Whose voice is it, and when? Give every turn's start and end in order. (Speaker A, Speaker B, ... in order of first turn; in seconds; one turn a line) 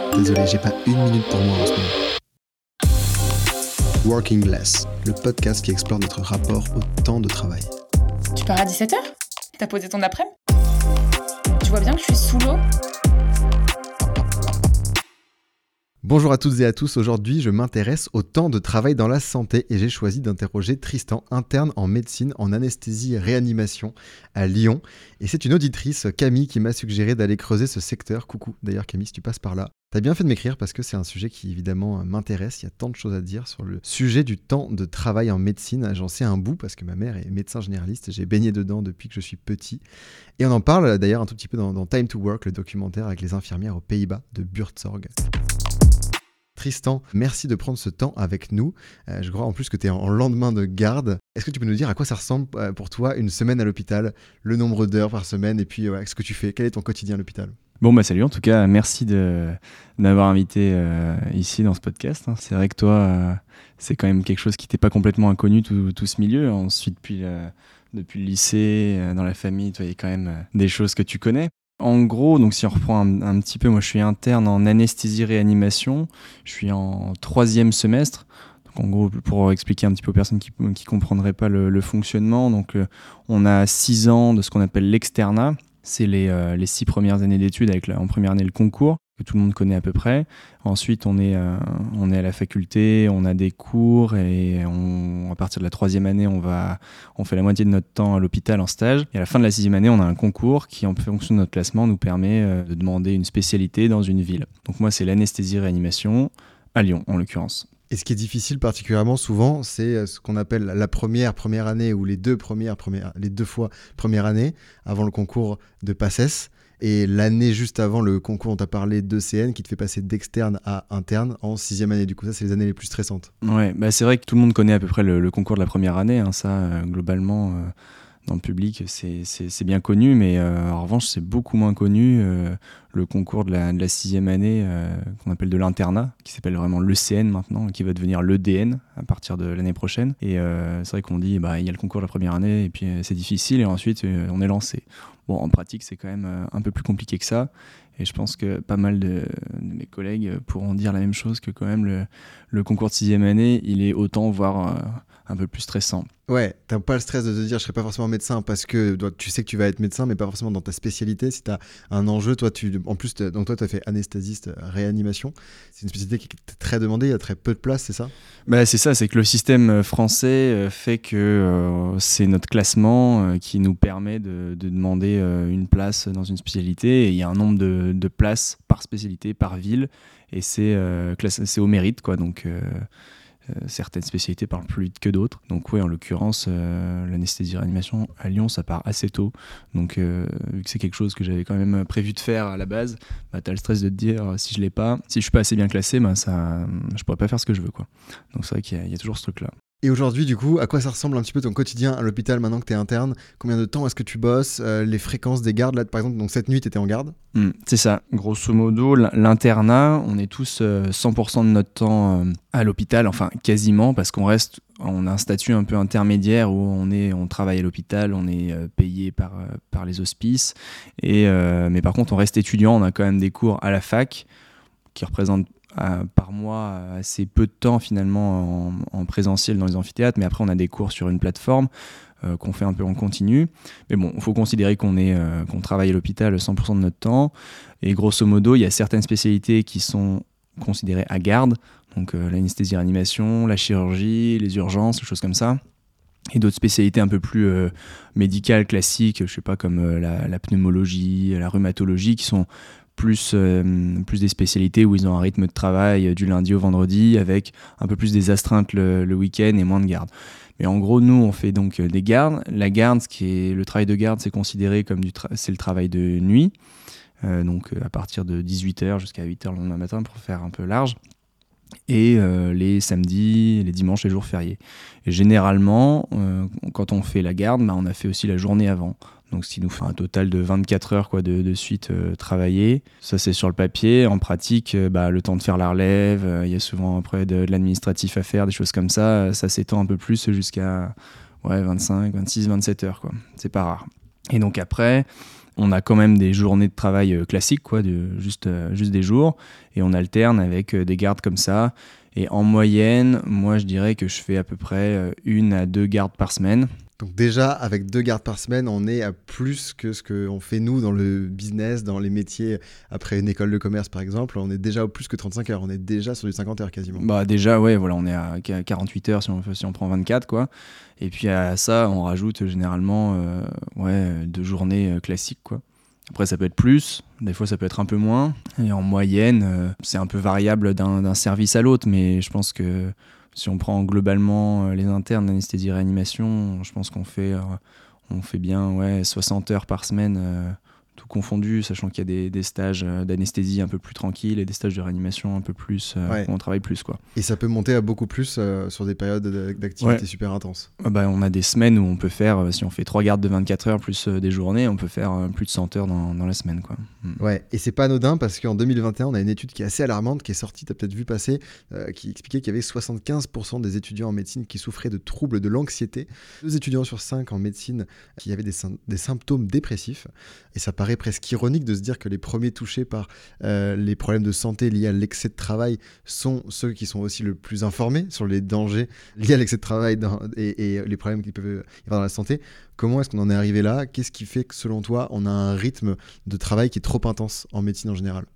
Speaker A: 0.1-1.9
Speaker A: 4.0-7.7
Speaker B: 8.3-10.3
Speaker B: 11.6-12.6
Speaker A: 16.0-39.8
Speaker A: 40.4-45.1
Speaker A: 46.5-57.5
Speaker C: 57.8-107.7
Speaker A: 107.9-123.3
Speaker C: 123.4-127.7
Speaker C: 128.2-156.1
Speaker A: 156.3-168.1
Speaker C: 168.5-182.8
Speaker C: 183.5-199.5
Speaker A: 199.8-207.1
Speaker C: 207.3-224.3
Speaker C: 224.9-231.7
Speaker C: 232.2-245.6
Speaker C: 246.3-266.5
Speaker C: 267.2-271.0
Speaker C: 271.9-295.1
Speaker C: 295.6-306.7
Speaker A: 307.0-317.1
Speaker C: 316.9-347.0
Speaker A: 347.1-350.7
Speaker C: 350.8-357.2
Speaker A: 357.2-388.3